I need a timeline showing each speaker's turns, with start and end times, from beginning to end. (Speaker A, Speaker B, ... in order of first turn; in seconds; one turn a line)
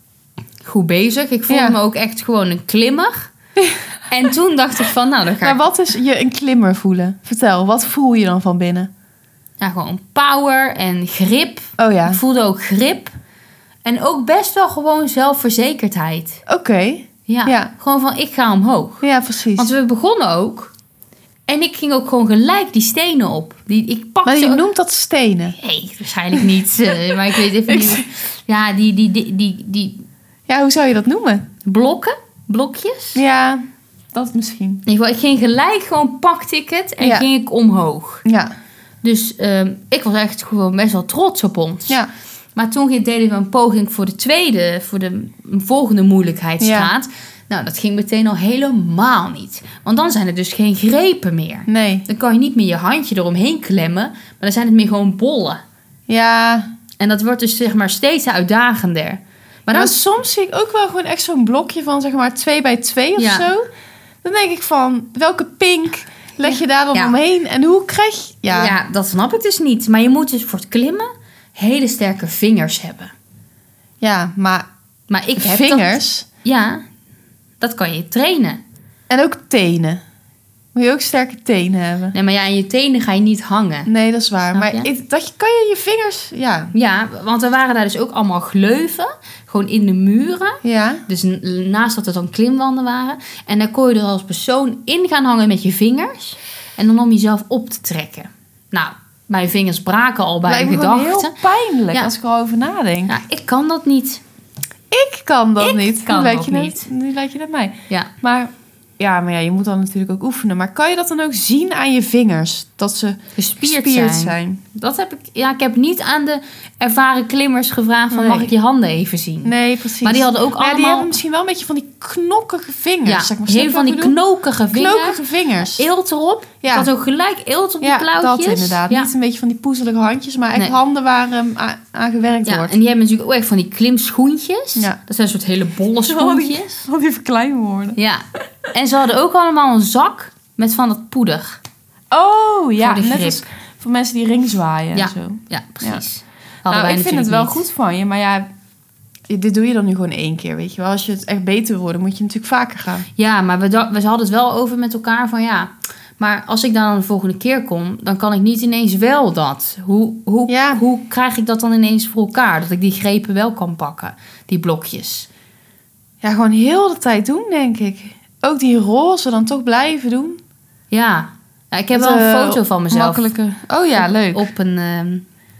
Speaker A: 0.6-3.3
Speaker B: 1.5-1.8
Speaker A: 4.1-5.6
Speaker B: 5.4-8.9
Speaker A: 9.6-13.1
Speaker B: 11.8-12.2
Speaker A: 13.8-16.4
Speaker B: 16.4-17.7
Speaker A: 17.3-19.0
Speaker B: 19.0-19.7
Speaker A: 19.6-20.7
Speaker A: 21.5-24.6
Speaker B: 24.2-25.6
Speaker A: 25.6-30.0
Speaker B: 27.1-28.0
Speaker B: 30.5-31.5
Speaker A: 31.6-33.2
Speaker B: 33.1-34.8
Speaker A: 34.9-38.2
Speaker B: 37.0-37.3
Speaker B: 38.2-38.5
Speaker A: 39.0-42.0
Speaker A: 42.5-55.6
Speaker B: 46.6-46.9
Speaker B: 51.7-52.1
Speaker B: 56.1-56.7
Speaker A: 57.0-60.0
Speaker B: 59.7-63.7
Speaker A: 63.2-63.5
Speaker B: 64.2-68.7
Speaker A: 66.4-67.2
Speaker A: 68.5-73.1
Speaker B: 74.0-74.7
Speaker A: 75.1-76.8
Speaker B: 75.4-76.2
Speaker A: 77.6-78.6
Speaker B: 79.1-80.0
Speaker B: 80.7-82.1
Speaker A: 82.1-83.9
Speaker B: 83.9-86.7
Speaker A: 84.5-84.9
Speaker A: 86.7-101.3
Speaker B: 90.6-91.0
Speaker B: 100.5-103.1
Speaker A: 103.1-104.2
Speaker B: 104.9-114.6
Speaker A: 105.6-106.9
Speaker A: 113.4-121.1
Speaker B: 118.1-118.5
Speaker B: 119.4-124.2
Speaker A: 123.0-129.1
Speaker B: 124.7-125.8
Speaker B: 126.6-126.9
Speaker B: 127.8-132.7
Speaker A: 132.4-136.9
Speaker B: 136.0-138.0
Speaker A: 137.9-141.6
Speaker B: 142.1-146.0
Speaker A: 142.8-143.4
Speaker A: 144.9-147.6
Speaker B: 146.7-148.5
Speaker B: 149.3-153.1
Speaker A: 153.2-165.3
Speaker B: 160.5-160.8
Speaker B: 166.2-170.4
Speaker A: 170.9-173.3
Speaker B: 171.9-174.5
Speaker A: 173.9-175.2